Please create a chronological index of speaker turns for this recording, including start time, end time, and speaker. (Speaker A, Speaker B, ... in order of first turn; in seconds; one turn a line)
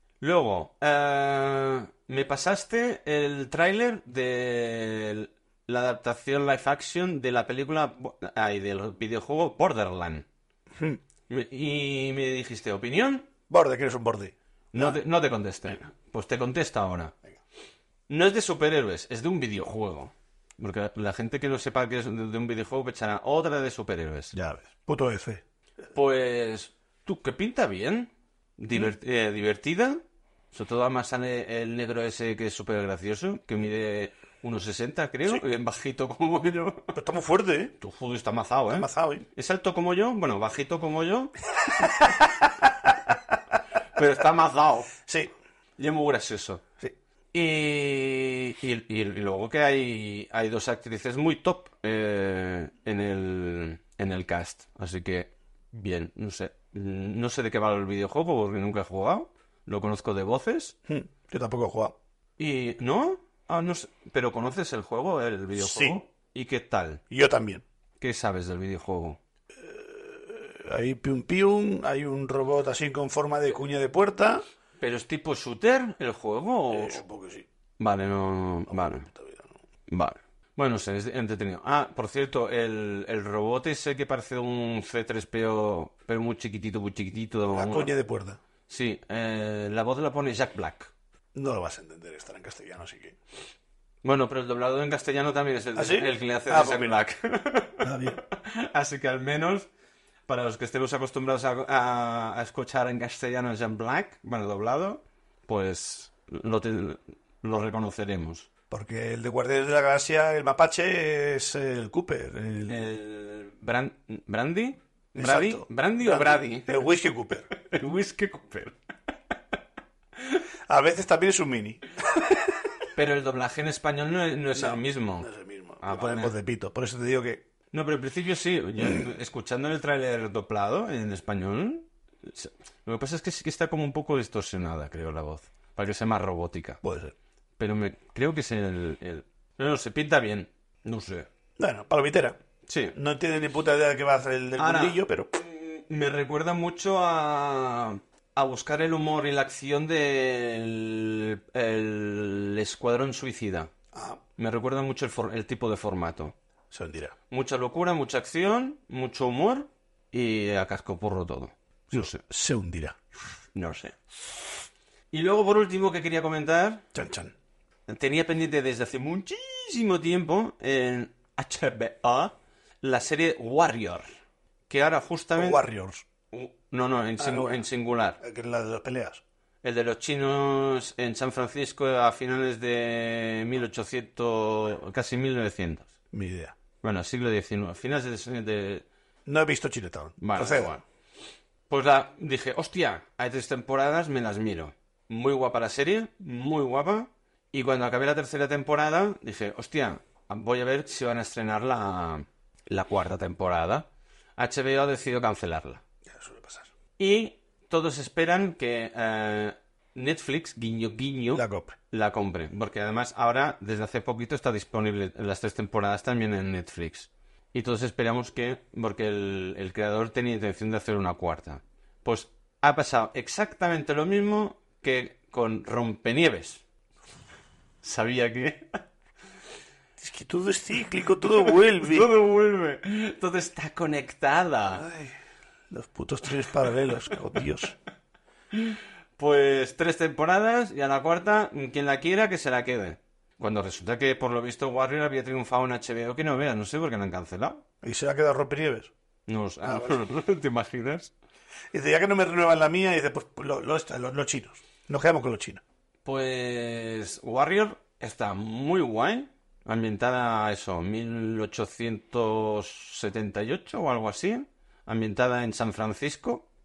Speaker A: 0.2-10.2
Speaker A: 11.3-13.3
Speaker B: 13.5-15.0
Speaker A: 14.7-17.1
Speaker A: 18.1-24.3
Speaker B: 24.3-25.4
Speaker A: 25.9-30.0
Speaker A: 30.5-37.0
Speaker B: 36.9-37.8
Speaker A: 37.8-41.3
Speaker B: 38.7-39.2
Speaker B: 41.6-43.3
Speaker A: 43.9-44.9
Speaker B: 45.0-45.3
Speaker A: 45.8-46.6
Speaker A: 47.3-60.7
Speaker B: 60.9-61.9
Speaker A: 62.4-67.0
Speaker B: 65.5-66.0
Speaker B: 67.1-67.6
Speaker A: 68.0-69.2
Speaker B: 69.5-74.4
Speaker A: 74.8-77.0
Speaker B: 76.7-77.5
Speaker A: 77.8-79.1
Speaker B: 78.7-79.5
Speaker A: 79.9-87.9
Speaker B: 87.5-88.4
Speaker A: 88.7-90.9
Speaker B: 91.3-93.2
Speaker A: 94.0-99.7
Speaker B: 95.7-96.9
Speaker B: 97.8-98.2
Speaker A: 100.3-108.5
Speaker B: 108.7-112.8
Speaker A: 112.7-116.7
Speaker B: 115.2-117.5
Speaker A: 117.5-118.8
Speaker B: 120.7-122.6
Speaker A: 122.9-125.3
Speaker B: 124.5-127.4
Speaker A: 125.8-126.3
Speaker A: 127.7-136.8
Speaker B: 136.8-137.1
Speaker A: 137.6-141.3
Speaker B: 141.6-142.4
Speaker A: 142.7-142.9
Speaker B: 142.9-145.3
Speaker A: 144.6-153.7
Speaker B: 153.9-154.2
Speaker A: 154.4-156.3
Speaker B: 156.7-157.1
Speaker A: 157.3-162.2
Speaker B: 161.9-163.0
Speaker A: 163.5-163.9
Speaker A: 165.1-166.8
Speaker B: 166.9-167.3
Speaker A: 167.9-174.1
Speaker A: 174.7-175.6
Speaker B: 175.3-176.0
Speaker A: 176.3-178.2
Speaker B: 177.2-177.6
Speaker B: 178.2-179.2
Speaker A: 179.6-185.9
Speaker B: 186.1-186.5
Speaker A: 186.8-188.8
Speaker B: 189.2-190.8
Speaker A: 190.2-190.8
Speaker A: 191.7-203.8
Speaker A: 204.4-205.8
Speaker B: 206.1-206.7
Speaker A: 207.0-226.6
Speaker B: 211.3-211.8
Speaker A: 227.8-228.8
Speaker B: 230.0-232.1
Speaker A: 231.7-234.9
Speaker B: 234.8-235.2
Speaker B: 235.7-237.7
Speaker A: 238.5-247.6
Speaker B: 247.8-248.9
Speaker A: 249.3-251.1
Speaker B: 249.6-250.0
Speaker B: 251.7-255.6
Speaker A: 256.0-266.5